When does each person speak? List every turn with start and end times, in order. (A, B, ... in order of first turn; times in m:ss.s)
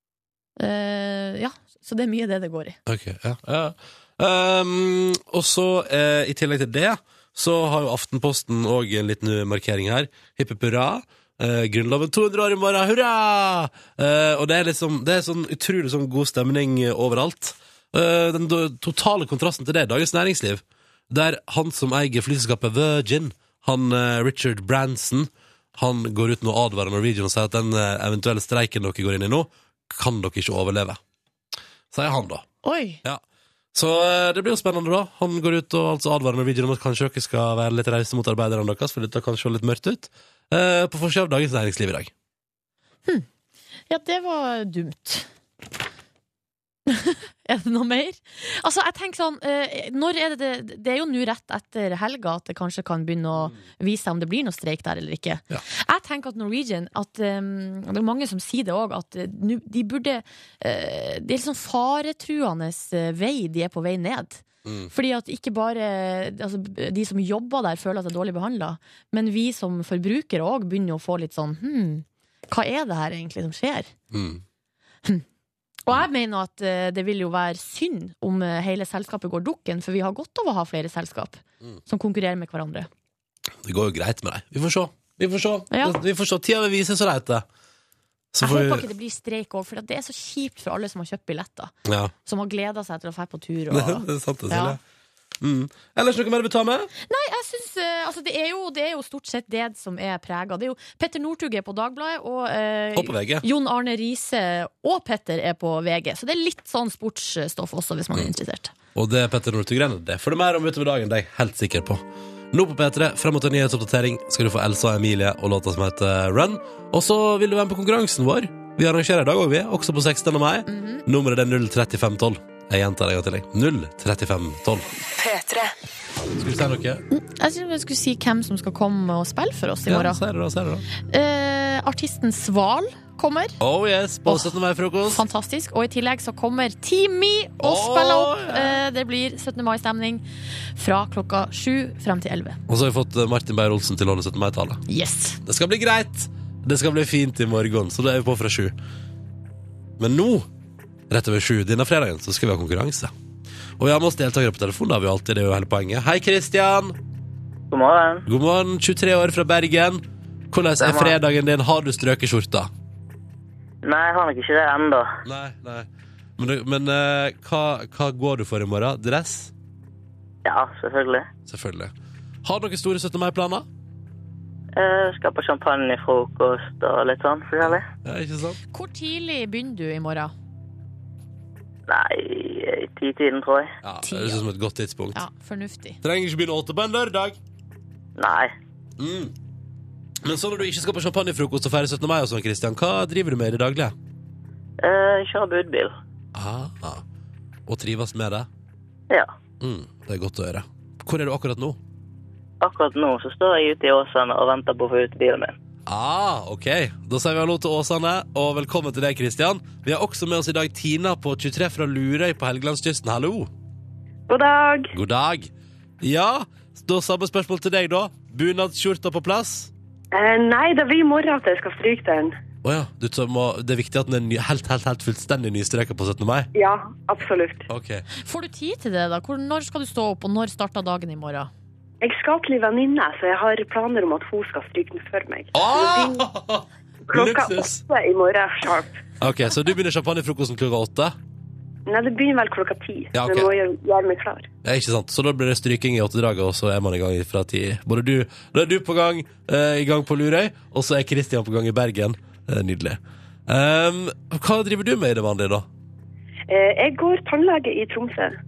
0:00.6-0:02.8 A
0:02.9-0:31.0 B
0:31.9-0:32.4 B
0:32.6-0:33.0 A
0:33.7-0:42.1 B
0:43.9-0:45.3 A
0:46.9-1:13.9 A
1:04.6-1:04.9 B
1:14.1-1:14.4 B
1:15.8-1:22.9 A
1:23.6-1:27.4 B
1:25.7-1:26.0 A
1:28.3-1:28.9 B
1:28.4-1:31.7 A
1:31.8-1:32.1 B
1:32.2-1:34.8 A
1:33.7-1:34.8 B
1:35.4-1:36.9 B
1:37.1-1:48.7 A
1:42.9-1:43.4 B
1:48.9-2:04.9 B
2:00.7-2:01.0 A
2:06.4-2:07.0 B
2:07.1-2:10.2 A
2:09.8-2:10.8 B
2:11.1-2:13.6 A
2:13.6-2:15.2 B
2:14.2-2:14.5 A
2:15.1-2:20.2 A
2:17.6-2:18.8 B
2:20.8-2:22.6 A
2:22.7-2:24.8 B
2:24.9-2:25.4 A
2:25.4-2:28.7 B
2:30.0-2:30.5 B
2:31.1-2:33.1 B
2:33.8-2:37.0 B
2:37.7-2:38.2 C
2:38.3-2:42.7 B
2:40.8-2:41.2 C
2:43.8-2:45.1 C
2:45.2-2:49.5 B
2:50.4-2:51.3 C
2:51.4-2:51.9 B
2:52.4-2:53.7 B
2:54.8-2:57.8 C
2:57.6-2:58.6 B
2:58.7-3:00.3 A
3:01.9-3:03.7 C
3:03.8-3:05.2 B
3:04.0-3:04.4 A
3:05.1-3:06.0 A
3:06.0-3:07.4 B
3:08.2-3:08.5 C
3:09.0-3:09.3 B
3:10.2-3:13.9 B
3:14.8-3:15.9 C
3:16.3-3:17.0 B
3:17.7-3:18.5 B
3:19.6-3:21.8 B
3:22.6-3:25.5 C
3:25.8-3:33.5 B
3:34.3-3:34.9 D
3:34.9-3:39.7 B
3:40.1-3:42.3 D
3:42.6-3:46.5 B
3:46.5-3:47.7 D
3:47.7-3:48.0 B
3:48.2-3:51.5 A
3:52.0-3:56.2 D
3:55.5-3:57.8 B
3:57.1-3:59.0 D
3:59.2-4:01.2 B
4:01.8-4:04.5 D
4:03.1-4:03.5 B
4:04.6-4:15.6 B
4:16.5-4:18.4 D